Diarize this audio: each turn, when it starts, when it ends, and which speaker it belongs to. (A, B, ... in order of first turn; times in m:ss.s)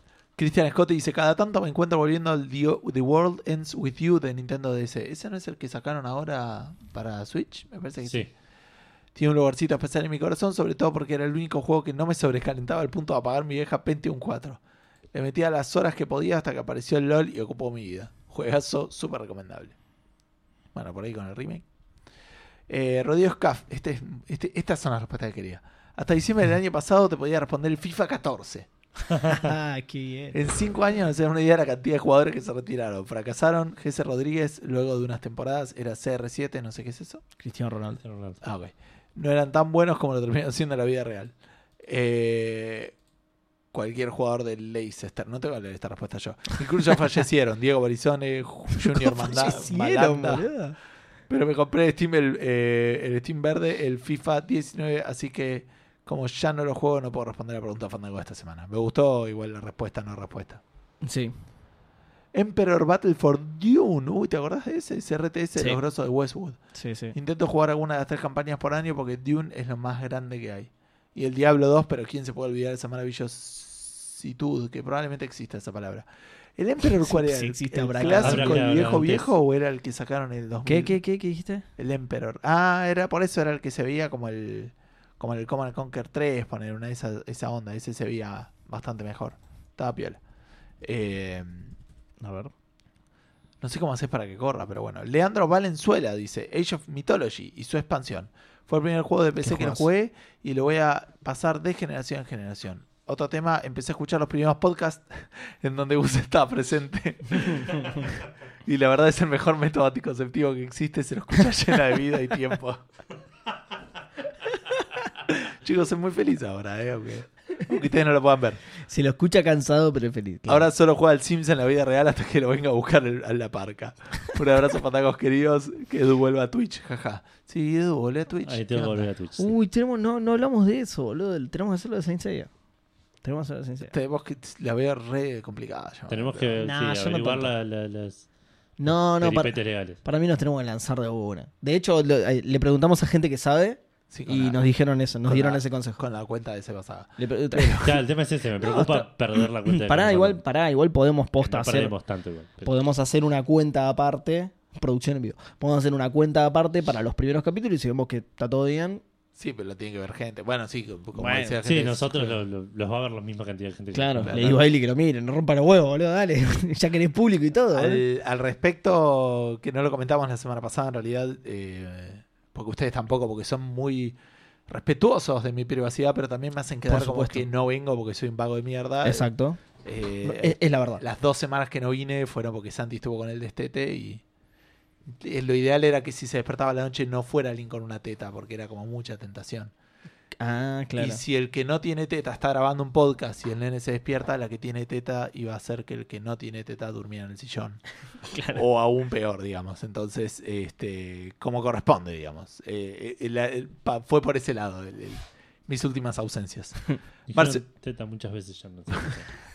0:00.4-0:08.3 A
0:09.2-0:14.6 A
0:15.1-0:19.8 A
0:20.7-0:21.6 A
0:22.7-0:28.7 A
0:29.1-0:30.4 B
0:30.3-0:37.2 A
0:37.4-0:38.0 B
0:38.0-0:38.4 C
0:38.4-0:43.0 A
0:43.7-0:50.5 A
0:48.8-0:50.8 B
0:51.3-1:00.6 A
1:01.0-1:01.3 B
1:02.3-1:06.6 A
1:06.7-1:07.2 B
1:07.1-1:21.0 A
1:17.0-1:18.8 B
1:18.1-1:19.3 C
1:20.7-1:21.7 B
1:21.8-1:30.2 A
1:30.8-1:31.8 A
1:32.2-1:32.5 B
1:33.6-1:52.8 A
1:39.4-1:39.9 B
1:55.2-1:58.6 A
1:58.9-2:00.7 B
2:00.5-2:09.1 A
2:08.4-2:09.5 C
2:09.4-2:12.5 B
2:13.2-2:13.9 B
2:13.8-2:16.6 A
2:16.1-2:18.3 C
2:16.6-2:17.5 B
2:18.8-2:26.0 B
2:18.9-2:20.0 C
2:24.1-2:24.6 A
2:25.3-2:28.0 A
2:27.2-2:28.0 B
2:27.8-2:30.4 C
2:28.6-2:31.9 B
2:31.4-2:32.8 C
2:32.6-2:39.0 B
2:39.4-2:42.4 A
2:41.2-2:41.6 B
2:41.6-2:44.6 C
2:43.9-2:48.0 B
2:44.2-2:44.6 A
2:47.7-2:54.2 A
2:54.7-2:59.3 A
2:56.9-2:57.5 B
2:59.0-2:59.6 B
2:59.8-3:04.2 A
3:00.2-3:01.0 B
3:05.1-3:09.7 A
3:10.4-3:11.2 B
3:11.0-3:17.8 A
3:18.3-3:18.6 B
3:18.5-3:26.8 A
3:27.3-3:29.3 C
3:27.3-3:27.6 A